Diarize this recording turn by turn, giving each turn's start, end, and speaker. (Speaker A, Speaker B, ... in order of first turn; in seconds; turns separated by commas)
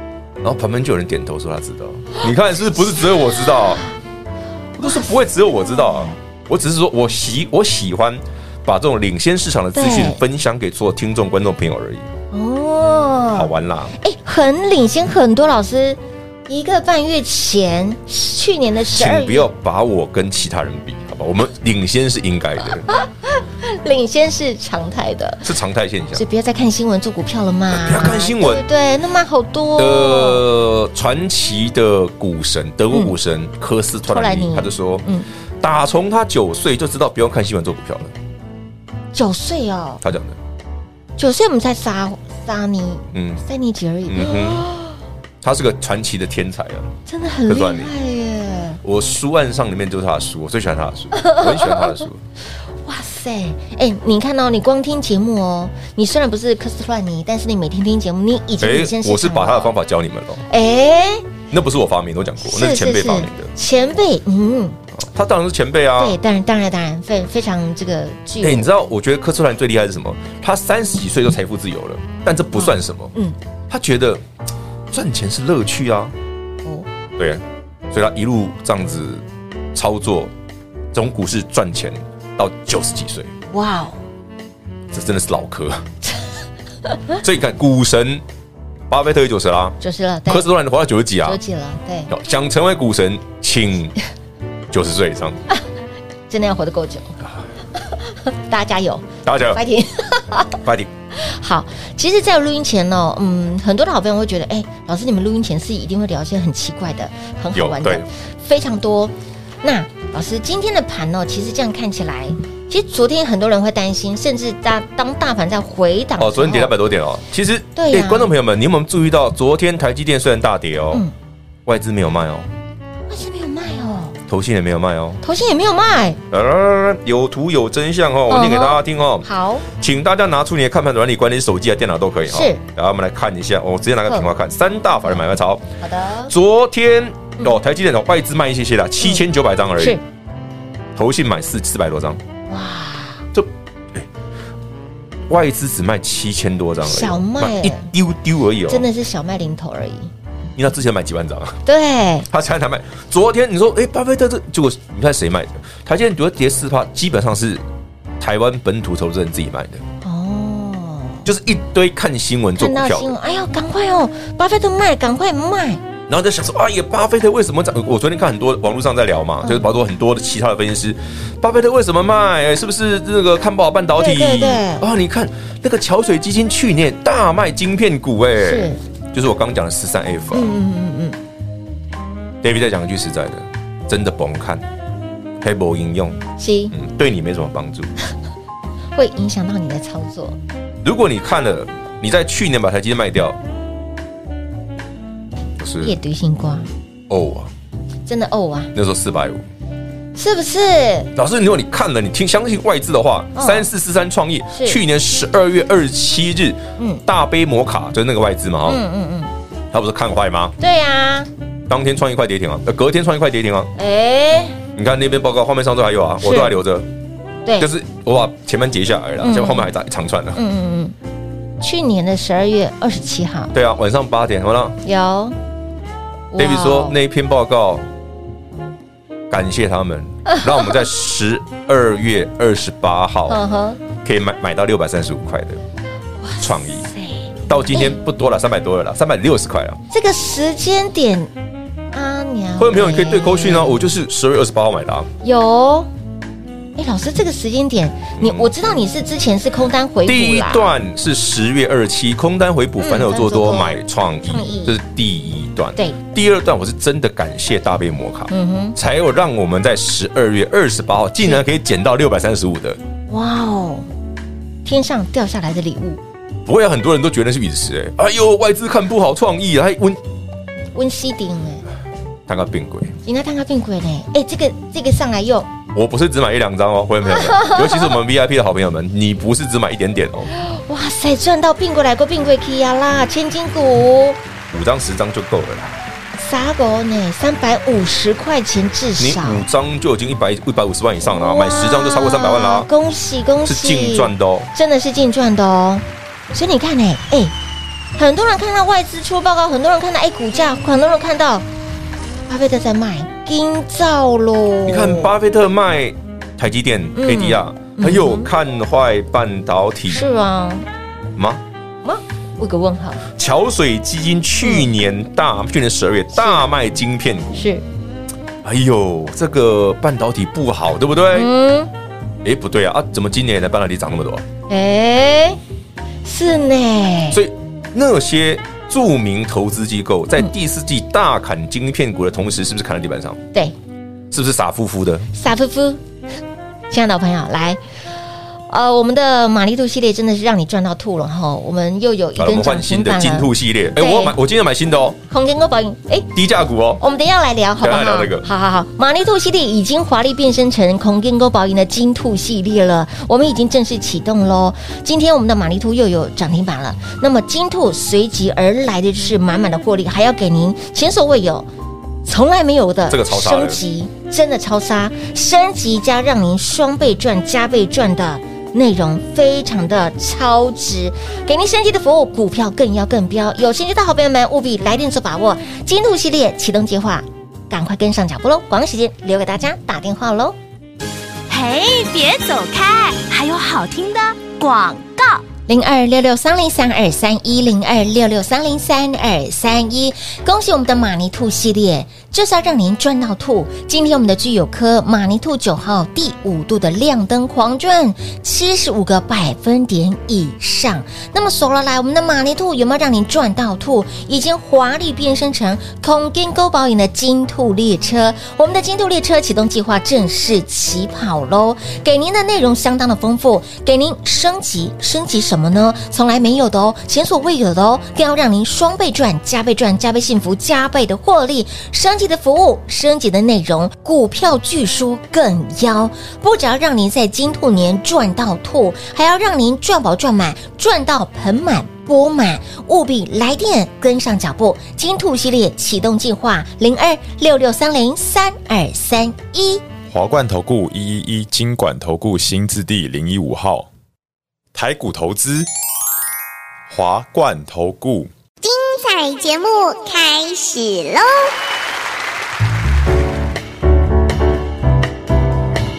Speaker A: 0.4-3.8, Speaker B: 3.2-3.9, Speaker A: 4.8-12.1, Speaker B: 4.8-5.1, Speaker B: 5.8-6.2, Speaker B: 9.8-10.2, Speaker B: 12.3-19.5, Speaker A: 13.3-13.9, Speaker A: 18.9-22.9, Speaker B: 22.9-25.5, Speaker A: 25.4-26.2, Speaker B: 26.1-30.4, Speaker A: 27.7-28.7, Speaker A: 29.8-35.0, Speaker B: 34.1-35.3, Speaker A: 35.6-38.1, Speaker B: 39.1-40.0, Speaker A: 40.0-40.4, Speaker B: 41.2-45.0, Speaker A: 43.1-43.4, Speaker A: 44.1-44.7, Speaker A: 45.4-46.9, Speaker B: 47.1-48.8, Speaker A: 47.5-47.9, Speaker A: 48.8-52.2, Speaker B: 51.1-52.0, Speaker B: 52.9-59.7, Speaker A: 58.6-60.5, Speaker B: 60.5-61.3, Speaker A: 61.5-63.5, Speaker B: 62.4-64.8, Speaker A: 65.0-66.2, Speaker B: 66.0-68.7, Speaker A: 68.4-73.1, Speaker B: 72.5-73.4, Speaker A: 73.7-74.2, Speaker A: 74.9-76.1, Speaker A: 77.2-80.3, Speaker A: 80.9-83.3, Speaker B: 83.5-84.0, Speaker A: 84.9-85.8, Speaker A: 87.2-88.2, Speaker A: 88.9-91.4, Speaker B: 89.8-90.5, Speaker B: 91.2-92.1, Speaker A: 92.1-93.9, Speaker A: 94.7-95.4, Speaker B: 96.3-97.2, Speaker B: 97.8-100.6, Speaker A: 99.2-99.6, Speaker A: 100.6-100.9, Speaker B: 101.1-116.7, Speaker A: 107.5-108.0, Speaker A: 116.2-121.0, Speaker B: 117.8-118.3, Speaker A: 121.7-122.5, Speaker B: 123.1-124.2, Speaker A: 124.3-125.2, Speaker B: 125.2-126.2, Speaker A: 126.3-135.7, Speaker B: 128.3-129.7, Speaker B: 132.3-132.6, Speaker B: 135.8-136.3, Speaker A: 136.3-140.0, Speaker A: 141.0-142.2, Speaker B: 142.5-143.2, Speaker A: 143.3-144.1, Speaker A: 145.3-148.9, Speaker B: 146.8-147.9, Speaker B: 148.7-150.1, Speaker A: 150.6-151.6, Speaker B: 151.7-152.3, Speaker A: 152.3-157.6, Speaker A: 158.2-159.8, Speaker B: 160.0-161.3, Speaker A: 161.2-163.1, Speaker B: 162.6-165.8, Speaker A: 166.1-180.6, Speaker B: 174.0-174.8, Speaker B: 178.4-178.8, Speaker B: 180.3-181.2, Speaker A: 182.4-184.7, Speaker A: 185.4-187.9, Speaker B: 186.4-186.7, Speaker B: 188.9-190.4, Speaker A: 190.8-193.4, Speaker A: 195.6-195.9, Speaker B: 195.8-196.7, Speaker A: 197.1-197.5, Speaker B: 198.1-198.7, Speaker A: 198.7-199.4, Speaker B: 200.2-201.1, Speaker A: 201.2-208.8, Speaker B: 203.3-203.7, Speaker B: 204.5-204.8, Speaker B: 208.7-209.3, Speaker A: 209.7-210.6, Speaker B: 210.6-211.3, Speaker A: 211.7-213.7, Speaker B: 213.8-214.6, Speaker A: 214.8-216.9, Speaker B: 216.2-216.6, Speaker A: 217.6-220.4, Speaker B: 219.2-219.7, Speaker B: 220.3-220.9, Speaker B: 221.6-223.5, Speaker A: 223.5-224.8, Speaker B: 224.8-225.4, Speaker B: 226.3-227.0, Speaker A: 226.4-227.8, Speaker A: 229.3-233.4, Speaker B: 233.3-233.8, Speaker A: 234.0-235.6, Speaker B: 236.2-238.0, Speaker A: 236.4-236.9, Speaker A: 237.5-239.8, Speaker B: 239.9-241.3, Speaker B: 241.9-243.8, Speaker A: 242.6-245.1, Speaker B: 245.2-245.9, Speaker B: 246.8-250.7, Speaker A: 248.2-248.6, Speaker A: 250.1-262.8, Speaker B: 252.8-254.8, Speaker B: 258.3-258.8, Speaker B: 263.1-263.9, Speaker B: 264.6-266.0, Speaker A: 266.5-270.0, Speaker B: 270.8-271.7, Speaker A: 272.3-272.9, Speaker B: 273.1-275.5, Speaker A: 275.7-280.3, Speaker B: 277.1-277.9, Speaker B: 280.3-284.2, Speaker A: 284.5-285.8, Speaker B: 286.2-289.4, Speaker A: 289.0-292.7, Speaker B: 291.0-297.3, Speaker A: 293.4-294.5, Speaker B: 298.0-301.5, Speaker B: 302.3-305.1, Speaker A: 304.7-310.0, Speaker B: 306.9-308.3, Speaker B: 309.9-310.7, Speaker A: 311.2-311.4, Speaker B: 311.8-313.1, Speaker A: 313.1-317.5, Speaker B: 314.4-314.7, Speaker B: 316.1-316.4, Speaker B: 317.4-317.6, Speaker A: 318.4-321.3, Speaker B: 321.1-321.7, Speaker A: 322.2-324.2, Speaker B: 324.5-325.4, Speaker B: 326.0-327.2, Speaker A: 327.1-333.2, Speaker A: 334.1-335.1, Speaker B: 335.1-335.8, Speaker B: 336.7-337.6, Speaker B: 338.5-344.1, Speaker A: 342.2-345.0, Speaker B: 345.1-346.1, Speaker A: 346.1-346.8, Speaker B: 346.8-361.5, Speaker A: 347.6-348.3, Speaker B: 362.1-380.4, Speaker A: 362.9-363.6, Speaker C: 381.3-385.2, Speaker B: 385.5-439.6, Speaker D: 439.9-443.7, Speaker D: 444.5-445.5, Speaker D: 446.7-448.1, Speaker E: 448.4-451.3